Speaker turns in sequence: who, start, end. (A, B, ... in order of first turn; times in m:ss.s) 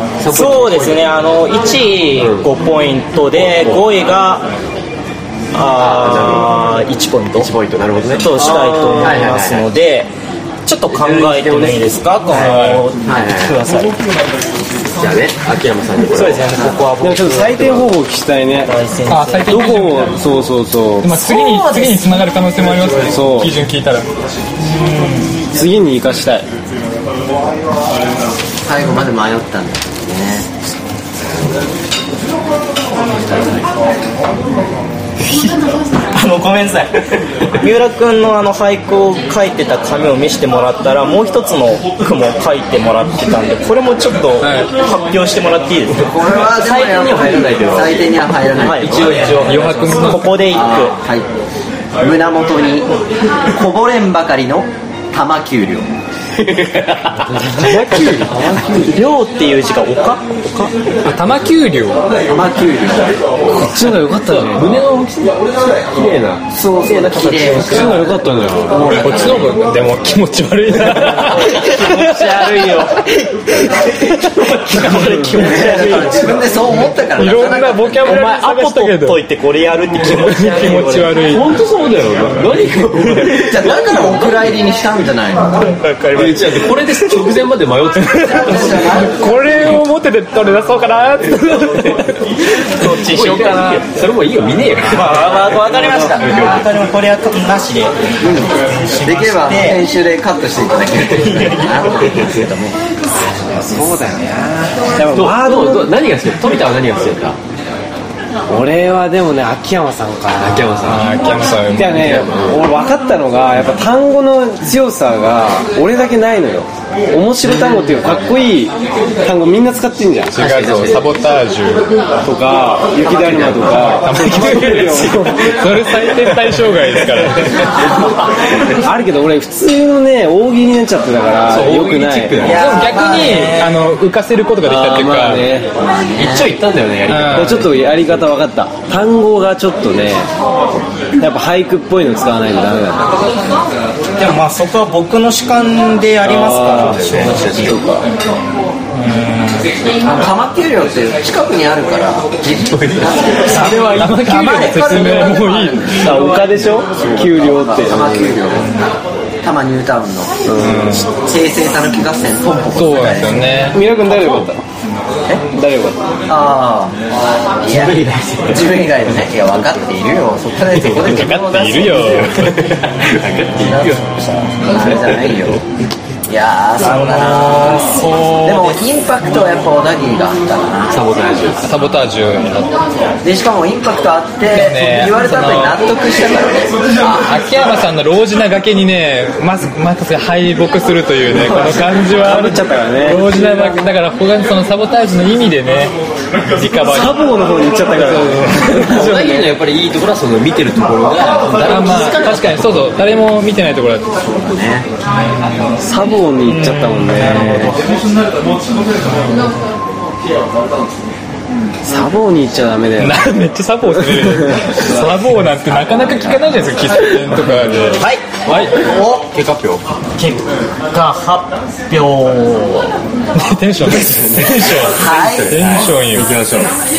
0:00.2-0:01.1 A
0:00.3-0:04.5 B
0:02.2-0:02.5 A
0:03.3-0:03.9 A
0:05.5-0:07.5 B
0:05.7-0:06.6 A
0:07.4-0:08.3 A
0:08.2-0:10.1 B
0:08.3-0:09.3 C
0:09.0-0:09.7 A
0:10.6-0:13.9 B
0:10.9-0:12.0 A
0:12.3-0:12.8 D
0:13.1-0:13.6 A
0:15.0-0:16.6 A
0:16.1-0:17.9 B
0:17.0-0:18.7 C
0:18.6-0:19.9 B
0:19.1-0:20.2 D
0:19.5-0:21.1 C
0:21.0-0:24.0 D
0:21.1-0:23.1 E
0:23.1-0:23.5 C
0:24.6-0:25.4 B
0:25.5-0:26.5 C
0:28.6-0:30.5 E
0:35.2-0:46.1 B
0:44.4-0:44.7 D
0:46.0-0:51.3 E
0:46.3-0:49.8 A
0:48.6-0:51.0 B
0:49.4-0:50.4 D
0:52.0-0:52.9 E
0:53.5-0:55.9 E
0:56.4-0:59.0 A
0:57.3-0:58.9 C
0:58.8-1:00.7 B
1:01.0-1:02.0 D
1:02.3-1:03.2 E
1:03.4-1:09.3 A
1:03.5-1:04.8 C
1:06.5-1:09.6 E
1:07.5-1:08.9 C
1:09.0-1:12.3 D
1:11.2-1:16.4 B
1:11.3-1:12.7 A
1:14.2-1:15.6 A
1:15.4-1:18.2 E
1:17.2-1:19.2 D
1:18.0-1:21.2 B
1:20.1-1:21.5 D
1:21.2-1:24.6 A
1:23.0-1:23.4 B
1:23.4-1:25.7 E
1:25.6-1:27.2 B
1:26.1-1:28.9 A
1:28.1-1:29.4 E
1:29.1-1:32.2 D
1:32.7-1:33.8 B
1:32.9-1:36.6 A
1:34.8-1:39.9 B
1:38.2-1:42.8 E
1:41.1-1:42.3 B
1:43.3-1:46.0 C
1:45.1-1:47.4 A
1:48.5-1:50.9 C
1:50.4-1:51.0 A
1:50.8-1:52.1 D
1:51.8-2:00.4 C
1:51.8-1:52.8 A
1:57.8-1:58.2 A
2:00.3-2:01.0 A
2:00.3-2:01.9 D
2:02.2-2:05.6 C
2:03.0-2:03.8 E
2:03.1-2:05.2 A
2:04.0-2:07.6 D
2:08.7-2:12.6 C
2:11.5-2:12.9 A
2:12.4-2:13.7 E
2:12.4-2:15.4 D
2:12.8-2:13.9 B
2:14.6-2:15.7 C
2:15.7-2:16.6 E
2:16.2-2:18.0 A
2:17.1-2:17.6 D
2:17.3-2:20.3 C
2:21.2-2:23.1 C
2:24.2-2:27.8 B
2:26.2-2:27.8 A
2:26.3-2:28.0 C
2:28.9-2:29.7 B
2:30.0-2:38.8 E
2:32.6-2:33.2 A
2:33.4-2:34.9 B
2:33.9-2:36.0 D
2:35.9-2:38.5 C
2:37.0-2:37.3 A
2:39.4-2:40.4 E
2:40.5-2:40.8 A
2:40.6-2:41.1 D
2:41.1-2:43.6 E
2:42.7-2:43.8 D
2:43.7-2:44.6 C
2:44.0-2:44.5 A
2:45.4-2:46.0 C
2:46.3-2:47.0 E
2:47.6-2:52.3 E
2:47.6-2:48.8 A
2:50.8-2:52.7 D
2:52.3-2:55.4 A
2:53.6-2:54.1 E
2:54.6-2:55.6 E
2:56.3-3:01.0 E
2:56.8-2:58.8 B
3:00.9-3:01.7 A
3:01.6-3:02.8 D
3:03.2-3:07.2 E
3:04.5-3:05.8 D
3:07.1-3:15.9 D
3:11.3-3:13.8 C
3:16.5-3:17.2 D
3:16.8-3:19.5 C
3:17.9-3:19.1 D
3:18.6-3:23.0 A
3:21.6-3:24.1 D
3:24.2-3:24.9 E
3:25.1-3:25.7 D
3:25.8-3:27.8 C
3:26.4-3:27.8 B
3:29.0-3:29.4 D
3:31.8-3:33.3 C
3:33.0-3:38.7 D
3:34.2-3:34.6 C
3:36.0-3:36.3 E
3:38.0-3:39.3 B
3:38.5-3:38.8 A
3:39.3-3:39.8 A
3:40.2-3:42.9 B
3:43.3-3:46.3 D
3:44.8-3:46.7 A
3:44.9-3:45.6 E